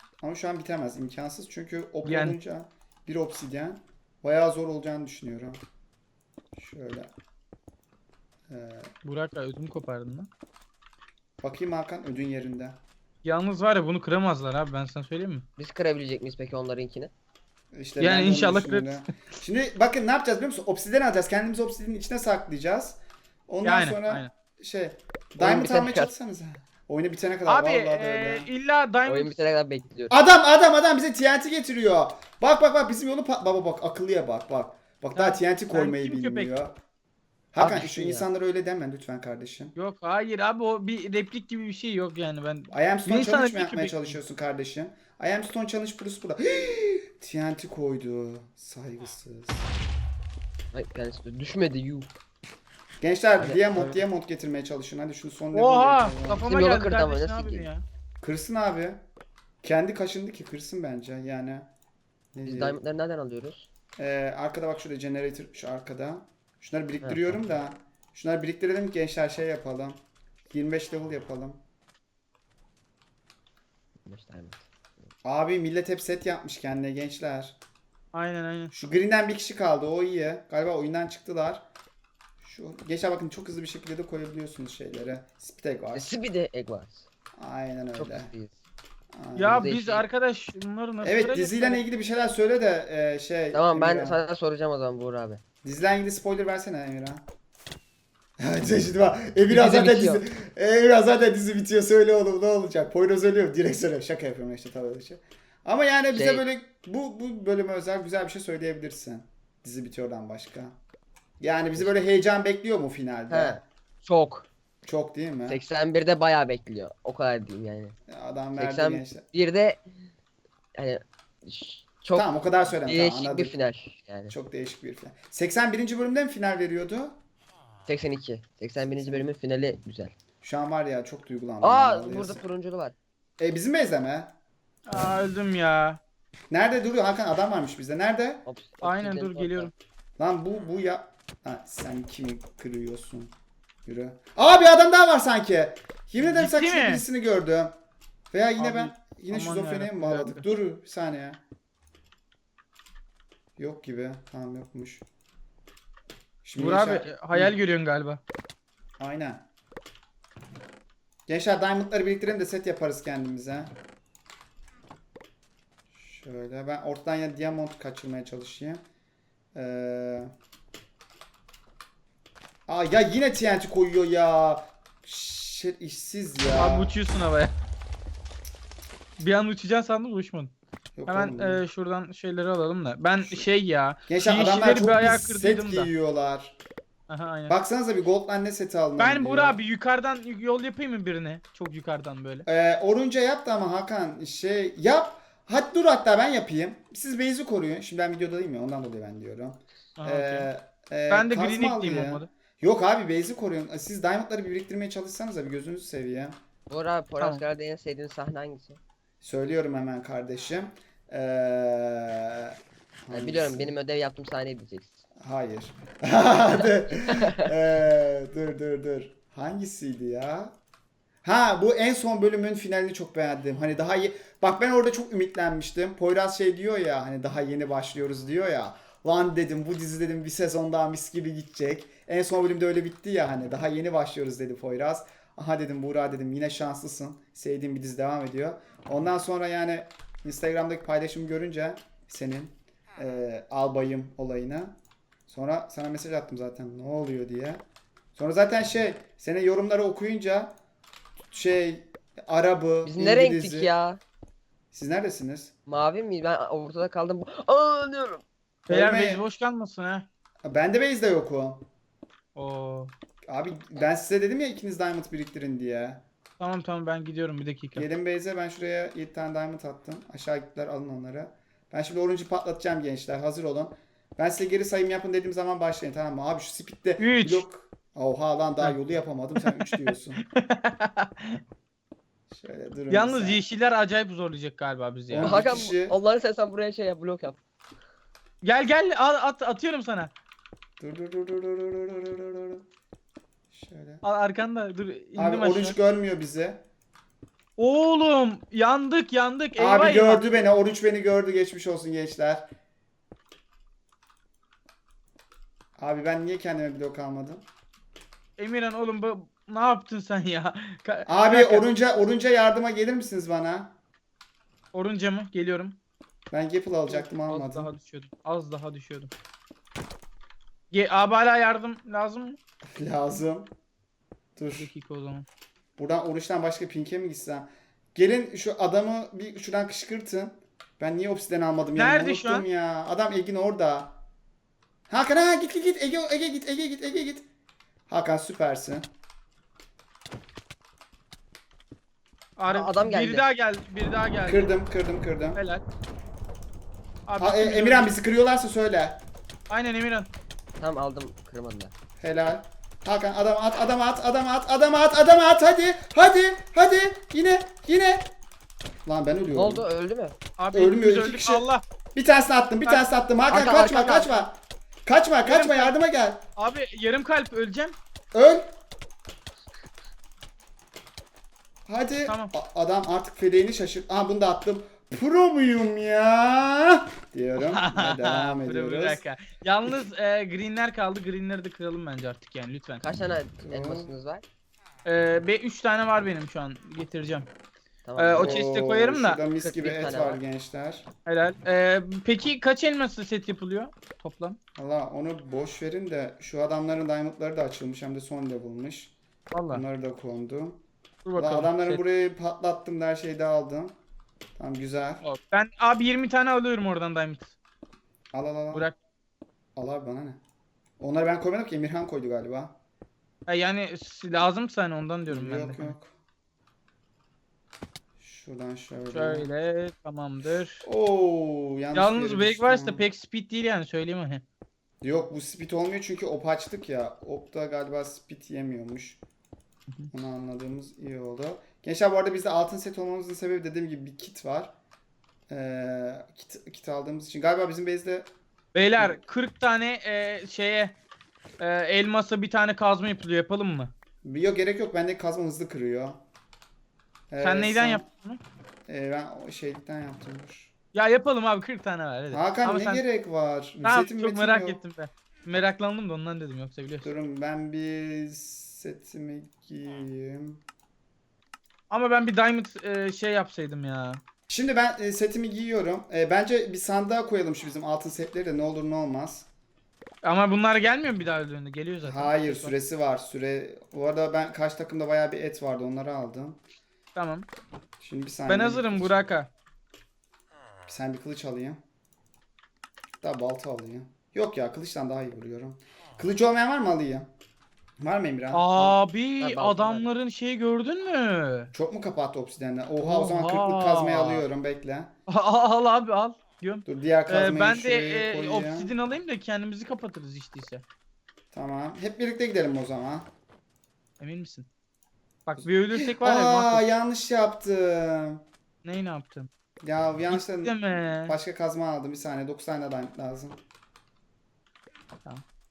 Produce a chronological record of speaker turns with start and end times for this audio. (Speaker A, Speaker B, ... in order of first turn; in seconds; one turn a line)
Speaker A: 0.2-5.6
Speaker B: 2.0-2.4
Speaker A: 6.6-7.1
Speaker A: 8.5-8.9
Speaker B: 9.0-10.3
Speaker A: 11.4-12.8
Speaker B: 13.2-15.5
Speaker C: 15.6-17.1
Speaker A: 17.7-28.5
Speaker B: 18.0-19.0
Speaker B: 23.6-24.3
Speaker C: 25.4-26.1
Speaker B: 27.5-29.4
Speaker C: 29.1-30.1
Speaker A: 30.1-36.8
Speaker B: 35.1-36.5
Speaker A: 37.5-39.7
Speaker C: 37.6-38.3
Speaker B: 39.8-44.2
Speaker A: 42.7-49.7
Speaker C: 50.7-52.1
Speaker A: 53.0-56.5
Speaker C: 53.4-54.0
Speaker B: 55.5-57.8
Speaker C: 56.5-57.7
Speaker A: 58.2-59.0
Speaker A: 59.6-61.7
Speaker A: 62.3-62.8
Speaker C: 62.5-63.7
Speaker A: 64.0-71.6
Speaker C: 67.0-67.4
Speaker C: 74.0-74.7
Speaker A: 75.2-77.6
Speaker B: 78.1-78.7
Speaker A: 78.7-81.6
Speaker A: 82.4-86.1
Speaker C: 85.9-87.1
Speaker A: 87.4-88.3
Speaker C: 88.0-88.6
Speaker A: 89.2-89.7
Speaker B: 89.4-91.8
Speaker C: 89.4-90.0
Speaker A: 91.0-94.2
Speaker C: 93.5-95.4
Speaker A: 95.6-97.2
Speaker A: 98.4-110.8
Speaker C: 99.5-100.2
Speaker C: 106.1-106.4
Speaker A: 111.4-113.6
Speaker C: 111.8-112.1
Speaker C: 113.3-114.5
Speaker A: 114.8-115.6
Speaker C: 115.5-118.0
Speaker A: 118.1-119.2
Speaker C: 118.6-119.8
Speaker C: 120.8-124.3
Speaker A: 122.1-123.5
Speaker A: 124.3-127.2
Speaker C: 127.9-130.2
Speaker A: 128.9-129.3
Speaker A: 130.4-132.4
Speaker C: 131.6-132.9
Speaker A: 133.4-134.3
Speaker B: 134.9-136.0
Speaker A: 136.5-138.4
Speaker C: 138.5-139.7
Speaker B: 138.8-139.7
Speaker A: 140.2-143.3
Speaker A: 143.9-147.8
Speaker B: 146.2-147.0
Speaker A: 148.3-151.4
Speaker B: 148.6-150.5
Speaker A: 153.6-155.1
Speaker A: 156.4-157.6
Speaker B: 156.6-158.2
Speaker A: 159.0-159.4
Speaker A: 161.3-163.7
Speaker A: 165.9-168.8
Speaker A: 169.6-170.3
Speaker A: 172.7-176.9
Speaker B: 176.6-177.6
Speaker B: 179.2-180.5
Speaker A: 181.0-181.6
Speaker B: 181.1-185.9
Speaker A: 183.2-183.5
Speaker A: 184.1-186.6
Speaker B: 187.1-187.6
Speaker A: 187.5-189.6
Speaker B: 189.0-192.5
Speaker A: 192.5-206.4
Speaker B: 200.0-200.5
Speaker B: 201.1-202.3
Speaker C: 206.7-208.8
Speaker A: 209.2-213.7
Speaker C: 213.1-215.0
Speaker A: 215.2-220.6
Speaker C: 217.1-217.5
Speaker A: 221.2-244.8
Speaker A: 245.3-247.6
Speaker A: 248.2-250.6
Speaker A: 251.3-253.7
Speaker C: 252.8-254.0
Speaker A: 254.7-255.5
Speaker C: 255.7-258.2
Speaker A: 258.7-259.2
Speaker B: 258.7-260.1
Speaker A: 260.4-261.7
Speaker B: 262.4-262.9
Speaker A: 263.3-266.0
Speaker B: 266.4-267.9
Speaker A: 267.8-280.2
Speaker B: 277.0-277.4
Speaker B: 279.4-281.4
Speaker A: 282.3-283.4
Speaker B: 282.9-285.6
Speaker A: 285.1-286.0
Speaker C: 285.2-287.4
Speaker B: 288.4-290.1
Speaker A: 290.8-292.6
Speaker A: 293.5-294.0
Speaker B: 294.0-295.8
Speaker A: 295.2-296.6
Speaker B: 297.6-300.2
Speaker A: 299.6-302.5
Speaker A: 305.8-307.4
Speaker B: 308.4-311.7
Speaker A: 311.1-313.7
Speaker B: 314.7-315.8
Speaker A: 316.3-317.7
Speaker B: 316.9-319.1
Speaker B: 320.7-322.4
Speaker A: 322.7-323.5
Speaker A: 324.4-324.7
Speaker B: 324.6-325.3
Speaker A: 325.8-334.0
Speaker B: 331.8-332.4
Speaker A: 334.9-337.3
Speaker A: 337.9-338.9
Speaker B: 342.4-344.5
Speaker C: 342.5-343.2
Speaker A: 344.3-345.4
Speaker B: 345.4-345.6
Speaker B: 347.1-347.9
Speaker A: 347.2-349.0
Speaker B: 349.5-350.1
Speaker C: 350.6-351.7
Speaker A: 352.0-358.1
Speaker A: 358.9-359.7
Speaker C: 359.3-360.2
Speaker B: 360.4-361.6
Speaker A: 360.5-366.2
Speaker C: 363.3-364.2
Speaker B: 365.2-365.7
Speaker B: 366.4-367.8
Speaker A: 368.1-368.5
Speaker A: 371.7-379.0
Speaker B: 372.1-372.3
Speaker B: 377.4-382.8
Speaker C: 382.8-384.2
Speaker A: 383.4-383.9
Speaker B: 384.9-387.3
Speaker C: 387.9-388.4
Speaker B: 388.0-389.2
Speaker A: 388.1-390.9
Speaker C: 389.4-390.2
Speaker B: 391.1-394.4
Speaker A: 394.6-398.9
Speaker B: 399.3-399.6
Speaker A: 399.5-400.6
Speaker B: 401.1-401.8
Speaker A: 401.2-403.8
Speaker A: 404.4-405.1
Speaker B: 405.0-407.4
Speaker A: 408.1-408.7
Speaker A: 409.6-410.2
Speaker A: 410.8-412.6
Speaker B: 413.3-415.7
Speaker A: 415.1-415.9
Speaker A: 418.0-419.3
Speaker B: 418.9-420.7
Speaker A: 420.6-422.8
Speaker B: 421.7-424.2
Speaker A: 424.8-429.0
Speaker A: 429.9-434.5
Speaker A: 435.3-438.1
Speaker B: 438.5-440.8
Speaker B: 441.4-443.7
Speaker A: 444.0-446.0
Speaker A: 447.1-447.9
Speaker B: 447.2-448.2
Speaker A: 448.7-450.5
Speaker B: 450.7-452.8
Speaker A: 452.1-454.6
Speaker B: 453.6-456.9
Speaker A: 456.8-460.4
Speaker B: 461.7-464.0
Speaker A: 464.3-469.3
Speaker B: 470.0-472.5
Speaker A: 471.8-476.4
Speaker B: 476.9-477.3
Speaker A: 477.8-479.1
Speaker B: 478.3-479.3
Speaker A: 480.7-481.6
Speaker A: 483.0-487.1
Speaker A: 487.8-488.8
Speaker B: 488.3-491.5
Speaker C: 489.2-489.9
Speaker A: 491.5-494.9
Speaker B: 492.8-494.3
Speaker B: 495.1-500.6
Speaker A: 496.7-498.7
Speaker A: 501.3-503.1
Speaker B: 504.0-504.5
Speaker B: 505.3-506.6
Speaker A: 505.4-508.2
Speaker B: 508.6-509.3
Speaker A: 509.6-513.4
Speaker B: 510.1-511.2